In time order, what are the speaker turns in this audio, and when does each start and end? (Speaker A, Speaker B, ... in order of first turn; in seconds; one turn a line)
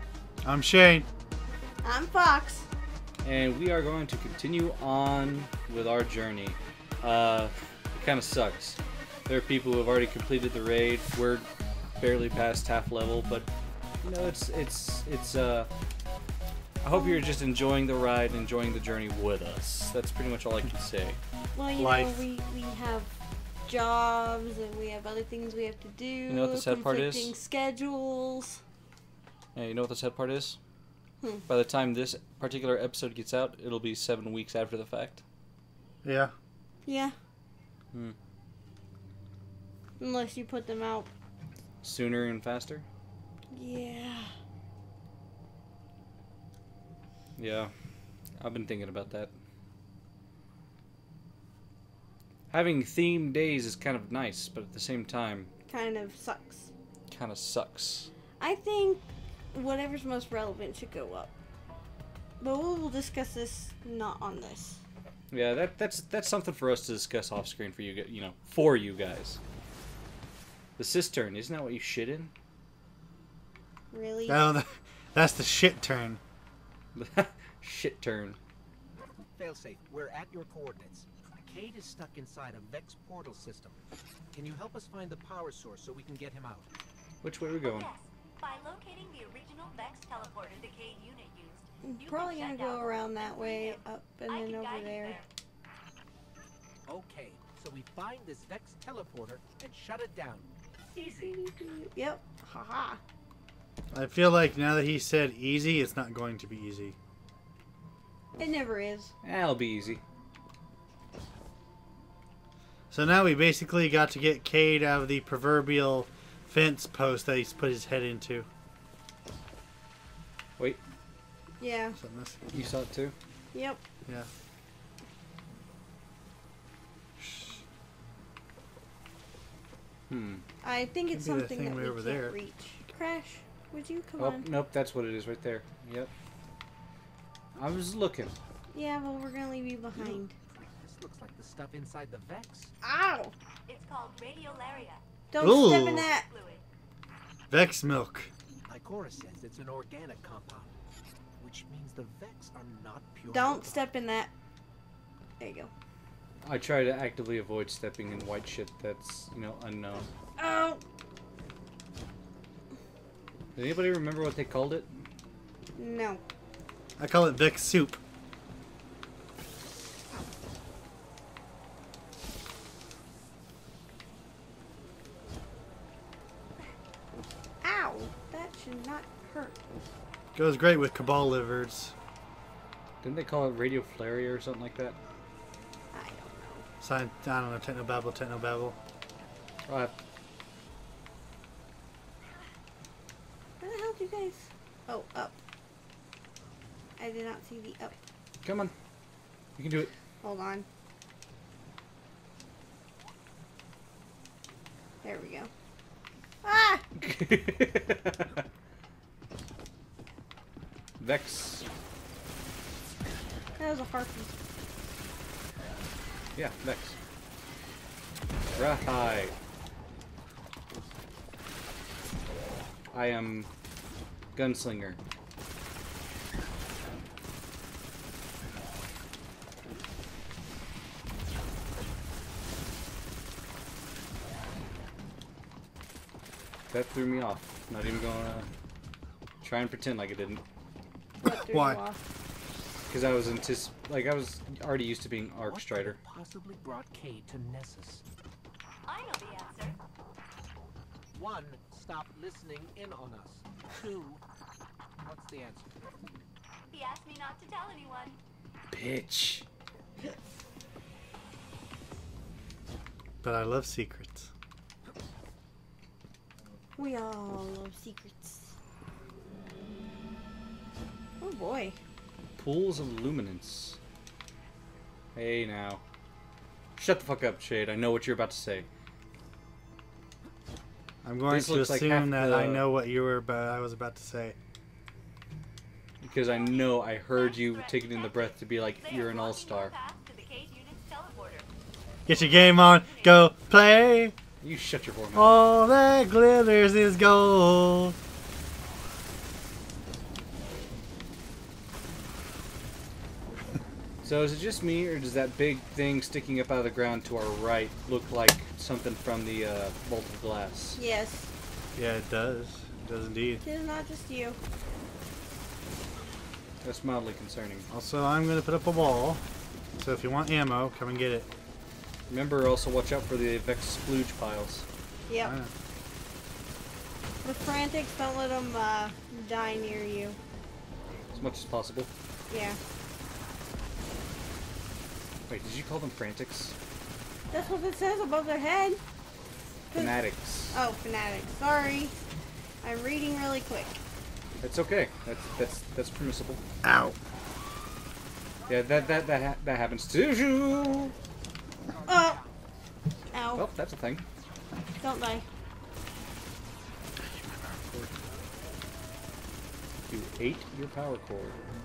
Speaker A: 0.4-1.1
Speaker B: 1.8-2.7
Speaker C: 3.2-11.5
Speaker C: 12.0-13.5
Speaker C: 14.0-15.7
Speaker C: 16.8-21.2
Speaker B: 16.9-17.2
Speaker B: 21.5-23.1
Speaker A: 21.7-22.2
Speaker B: 23.6-28.6
Speaker C: 26.3-27.3
Speaker C: 29.5-30.6
Speaker C: 31.5-35.2
Speaker A: 36.0-36.3
Speaker B: 36.8-37.1
Speaker B: 40.0-41.1
Speaker C: 41.8-42.8
Speaker B: 43.5-44.3
Speaker C: 47.4-47.7
Speaker C: 48.4-49.3
Speaker C: 52.5-55.5
Speaker B: 55.7-56.7
Speaker C: 57.1-58.1
Speaker B: 58.4-61.3
Speaker B: 62.4-64.8
Speaker C: 65.3-69.4
Speaker C: 70.8-72.3
Speaker B: 73.9-74.5
Speaker A: 74.3-76.2
Speaker C: 76.9-78.4
Speaker D: 79.3-86.7
Speaker C: 87.2-87.9
Speaker E: 87.6-95.3
Speaker B: 91.9-95.2
Speaker D: 96.8-101.3
Speaker B: 101.2-103.0
Speaker A: 103.9-107.0
Speaker B: 108.4-109.1
Speaker C: 109.2-110.0
Speaker A: 112.9-118.5
Speaker B: 121.6-122.0
Speaker A: 122.0-122.4
Speaker C: 122.5-123.1
Speaker B: 123.5-123.8
Speaker A: 127.2-127.6
Speaker C: 130.1-130.4
Speaker B: 130.6-134.5
Speaker A: 131.1-132.3
Speaker C: 134.2-136.1
Speaker C: 137.5-138.3
Speaker B: 138.7-140.3
Speaker D: 140.7-142.7
Speaker B: 142.8-143.3
Speaker E: 143.7-146.6
Speaker B: 145.3-146.3
Speaker A: 145.4-146.1
Speaker A: 147.5-148.3
Speaker D: 148.7-150.8
Speaker D: 151.4-153.9
Speaker B: 153.3-154.3
Speaker B: 155.4-155.7
Speaker C: 156.4-160.1
Speaker B: 160.4-160.8
Speaker C: 163.6-165.0
Speaker B: 165.8-166.2
Speaker A: 167.0-168.0
Speaker B: 177.6-179.8
Speaker A: 180.3-181.9
Speaker C: 183.0-185.0
Speaker B: 185.9-186.7
Speaker A: 186.8-188.8
Speaker C: 189.7-189.9
Speaker B: 193.6-195.3
Speaker B: 197.0-198.0
Speaker C: 198.4-198.7
Speaker C: 199.6-199.9
Speaker B: 200.2-200.7
Speaker B: 205.0-205.5
Speaker B: 206.4-206.8
Speaker C: 207.0-208.4
Speaker C: 211.0-211.7
Speaker B: 213.6-214.3
Speaker C: 216.3-217.0
Speaker C: 218.6-219.3
Speaker C: 222.9-223.5
Speaker C: 224.3-225.0
Speaker C: 236.7-238.5
Speaker C: 239.4-240.4
Speaker B: 241.2-242.0
Speaker A: 241.2-241.8
Speaker C: 242.9-246.0
Speaker D: 245.4-248.0
Speaker E: 248.8-249.8
Speaker D: 251.1-254.2
Speaker D: 255.0-255.8
Speaker E: 256.7-258.2
Speaker C: 258.7-259.4
Speaker A: 263.2-264.3
Speaker B: 266.8-268.5
Speaker B: 271.2-271.8
Speaker C: 272.4-273.8
Speaker C: 275.1-275.8
Speaker C: 276.8-278.7
Speaker A: 281.0-284.4
Speaker C: 281.3-282.7
Speaker C: 286.0-289.7
Speaker E: 286.3-291.5
Speaker E: 292.1-293.3
Speaker A: 292.1-294.1
Speaker C: 294.4-295.4
Speaker A: 295.1-297.9
Speaker C: 304.0-310.8
Speaker B: 310.8-311.3
Speaker A: 311.7-313.4
Speaker B: 313.4-314.4
Speaker C: 316.6-317.7
Speaker A: 317.7-319.2
Speaker A: 319.8-321.3
Speaker C: 322.1-324.6
Speaker B: 325.1-325.3
Speaker A: 325.2-325.5
Speaker B: 327.2-330.2
Speaker C: 331.1-331.9
Speaker B: 332.3-332.6
Speaker C: 335.3-336.5
Speaker B: 337.3-338.8
Speaker B: 339.7-341.9
Speaker C: 339.8-340.6
Speaker B: 342.6-343.8
Speaker C: 344.4-346.4
Speaker A: 346.6-346.9
Speaker D: 348.3-349.2
Speaker C: 348.5-350.9
Speaker D: 351.7-352.6
Speaker B: 351.9-352.2
Speaker B: 353.1-353.5
Speaker C: 353.3-354.0
Speaker B: 354.8-355.2
Speaker A: 357.0-358.1
Speaker C: 359.9-361.4